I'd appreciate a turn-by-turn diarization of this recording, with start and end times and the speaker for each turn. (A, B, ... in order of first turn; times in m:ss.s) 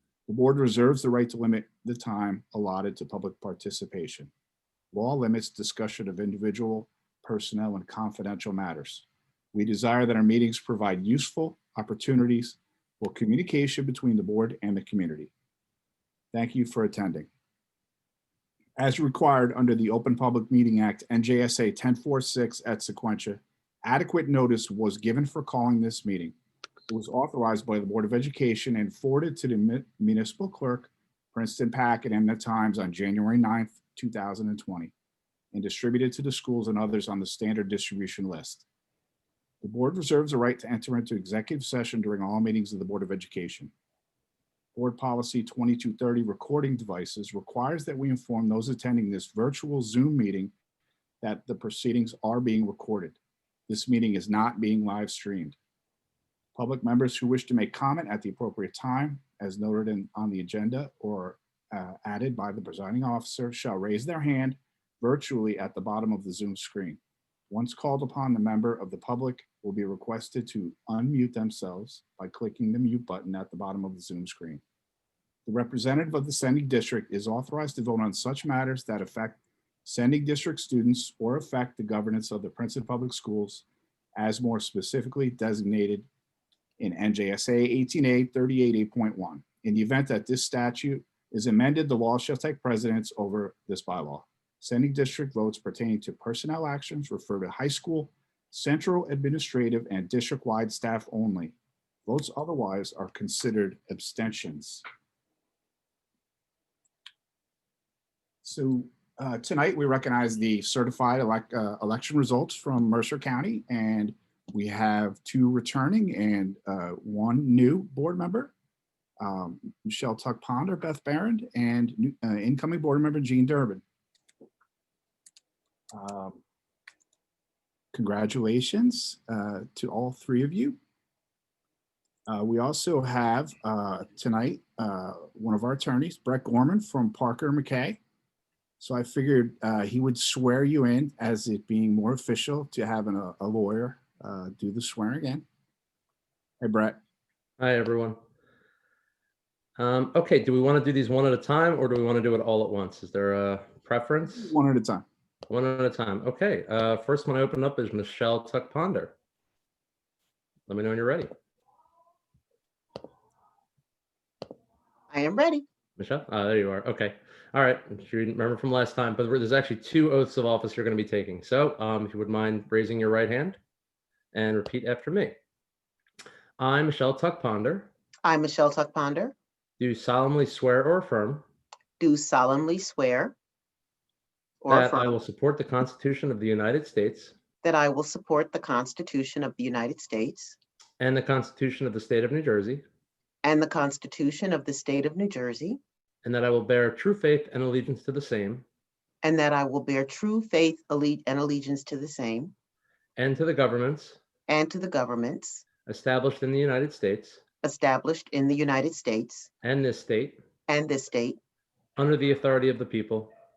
0:00.3-0:04.3 A
0:04.9-0:15.3 A
0:16.3-0:17.3 A
0:18.8-0:26.3 A
0:26.9-0:34.9 A
0:35.5-0:38.6 A
0:39.6-0:43.7 A
0:44.8-0:50.5 A
0:51.2-0:53.2 A
0:53.7-0:55.6 A
0:56.6-1:07.0 A
1:07.5-1:14.6 A
1:15.5-1:23.6 A
1:24.2-1:26.1 A
1:26.8-1:41.6 A
1:42.1-1:44.8 A
1:48.4-1:58.5 A
1:59.2-2:03.8 A
2:05.9-2:06.4 A
2:07.9-2:10.8 A
2:12.3-2:18.0 A
2:18.8-2:25.4 A
2:26.6-2:27.0 A
2:27.6-2:28.2 B
2:29.8-2:34.6 B
2:34.3-2:35.0 A
2:35.5-2:39.2 B
2:40.7-2:41.3 B
2:45.1-2:45.6 C
2:46.0-2:53.6 B
2:54.3-2:55.4 B
2:56.6-2:57.9 B
2:58.2-2:59.4 C
2:59.8-3:01.4 B
3:02.0-3:03.4 C
3:04.6-3:05.2 C
3:04.7-3:07.4 B
3:07.6-3:10.6 C
3:11.0-3:12.8 B
3:13.4-3:15.8 C
3:16.2-3:18.6 B
3:19.2-3:22.5 C
3:23.2-3:24.2 B
3:24.5-3:25.6 C
3:25.9-3:27.4 B
3:27.6-3:29.5 C
3:29.6-3:30.4 B
3:30.7-3:31.4 C
3:32.0-3:33.3 B